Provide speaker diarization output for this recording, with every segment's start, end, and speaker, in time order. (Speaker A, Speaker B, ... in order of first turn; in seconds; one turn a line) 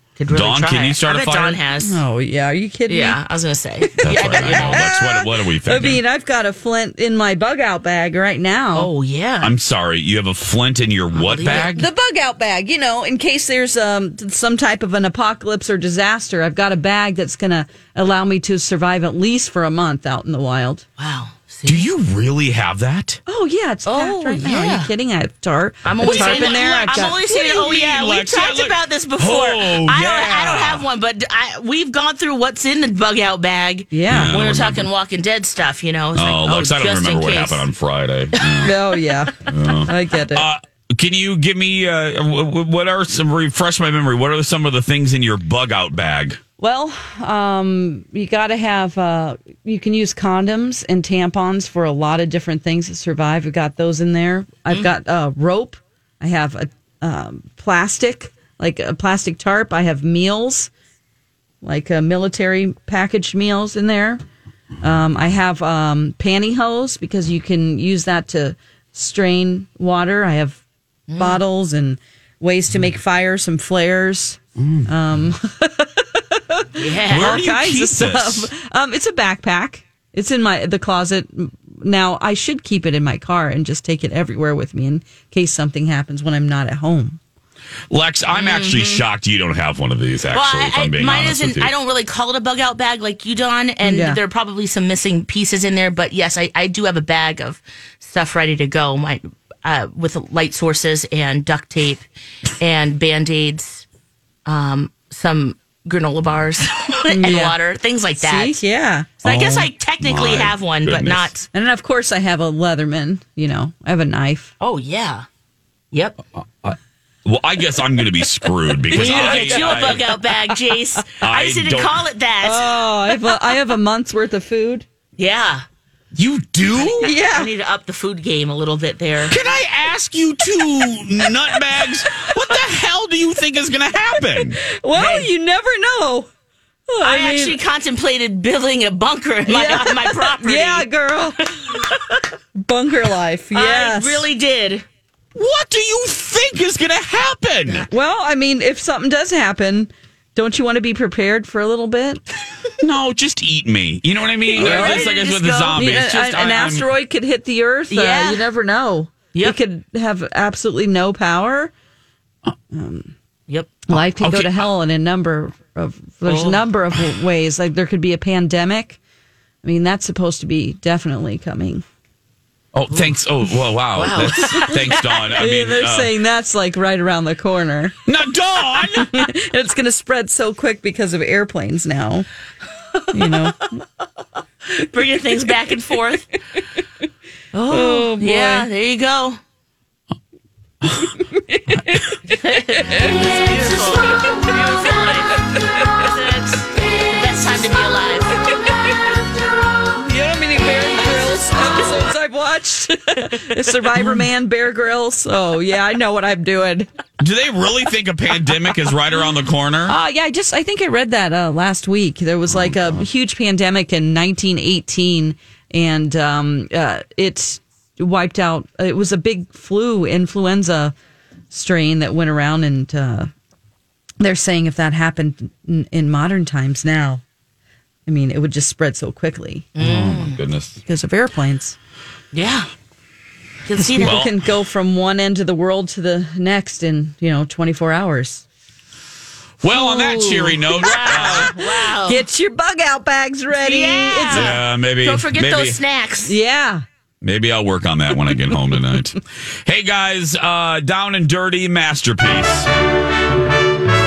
Speaker A: 0.2-2.0
Speaker B: 0.3-1.6
Speaker C: 1.8-3.2
Speaker A: 2.9-4.8
Speaker C: 4.0-8.9
Speaker B: 4.0-6.0
Speaker A: 8.7-9.5
Speaker B: 9.4-11.8
Speaker A: 11.1-11.8
Speaker C: 11.5-20.8
Speaker A: 21.0-21.9
Speaker B: 21.6-23.2
Speaker C: 23.3-27.2
Speaker A: 23.8-24.9
Speaker A: 25.8-37.6
Speaker B: 26.0-30.9
Speaker C: 33.9-34.3
Speaker B: 34.1-34.9
Speaker B: 36.1-38.8
Speaker A: 38.4-38.7
Speaker C: 38.6-39.3
Speaker B: 39.4-46.4
Speaker C: 39.9-40.5
Speaker C: 46.6-60.7
Speaker C: 61.6-64.2
Speaker C: 64.8-70.6
Speaker A: 71.1-71.4
Speaker C: 71.2-87.2
Speaker B: 74.6-74.9
Speaker A: 76.8-77.3
Speaker B: 77.1-78.5
Speaker B: 87.9-91.7
Speaker A: 88.3-89.0
Speaker A: 90.3-102.0
Speaker C: 93.8-94.2
Speaker A: 102.6-103.8
Speaker A: 104.5-108.6
Speaker C: 107.1-107.5
Speaker C: 108.2-109.3
Speaker A: 109.2-111.5
Speaker B: 109.2-111.3
Speaker C: 111.5-114.5
Speaker A: 114.6-115.2
Speaker A: 115.9-116.2
Speaker B: 116.6-120.1
Speaker C: 118.9-120.3
Speaker A: 118.9-122.8
Speaker B: 121.2-122.0
Speaker C: 122.4-124.8
Speaker A: 125.2-125.6
Speaker B: 126.1-127.1
Speaker A: 126.7-129.4
Speaker C: 127.0-127.5
Speaker B: 129.3-134.6
Speaker C: 134.6-136.3
Speaker A: 134.9-135.3
Speaker C: 136.9-137.6
Speaker A: 137.0-140.9
Speaker C: 139.5-141.4
Speaker A: 141.4-142.2
Speaker C: 142.5-144.2
Speaker A: 143.5-144.8
Speaker B: 145.3-147.9
Speaker C: 147.9-152.2
Speaker B: 152.8-156.9
Speaker A: 154.5-156.0
Speaker C: 154.6-155.1
Speaker C: 155.7-161.7
Speaker A: 157.9-158.4
Speaker C: 162.7-163.1
Speaker A: 163.5-163.8
Speaker C: 163.9-169.0
Speaker B: 163.9-164.7
Speaker A: 166.2-166.6
Speaker C: 169.6-171.8
Speaker B: 172.7-176.1
Speaker A: 173.9-175.4
Speaker C: 174.5-177.9
Speaker B: 178.1-179.3
Speaker C: 179.0-182.3
Speaker A: 182.9-183.5
Speaker C: 183.1-183.8
Speaker A: 184.7-186.3
Speaker A: 187.5-189.4
Speaker C: 187.7-188.7
Speaker B: 190.8-191.1
Speaker C: 191.3-194.5
Speaker A: 192.3-198.7
Speaker C: 195.5-196.0
Speaker C: 199.9-206.9
Speaker B: 207.2-209.9
Speaker C: 209.9-220.9
Speaker B: 212.5-213.0
Speaker C: 221.5-223.3
Speaker C: 224.2-227.2
Speaker C: 228.1-229.7
Speaker A: 229.8-230.4
Speaker B: 229.8-230.8
Speaker C: 230.8-231.8
Speaker A: 232.3-232.7
Speaker A: 233.7-234.2
Speaker C: 234.0-238.4
Speaker B: 234.0-234.3
Speaker B: 239.6-241.6
Speaker A: 239.7-242.2
Speaker C: 240.8-241.5
Speaker C: 242.1-244.5
Speaker A: 243.5-246.3
Speaker B: 244.3-245.8
Speaker C: 246.2-246.8
Speaker B: 247.2-252.7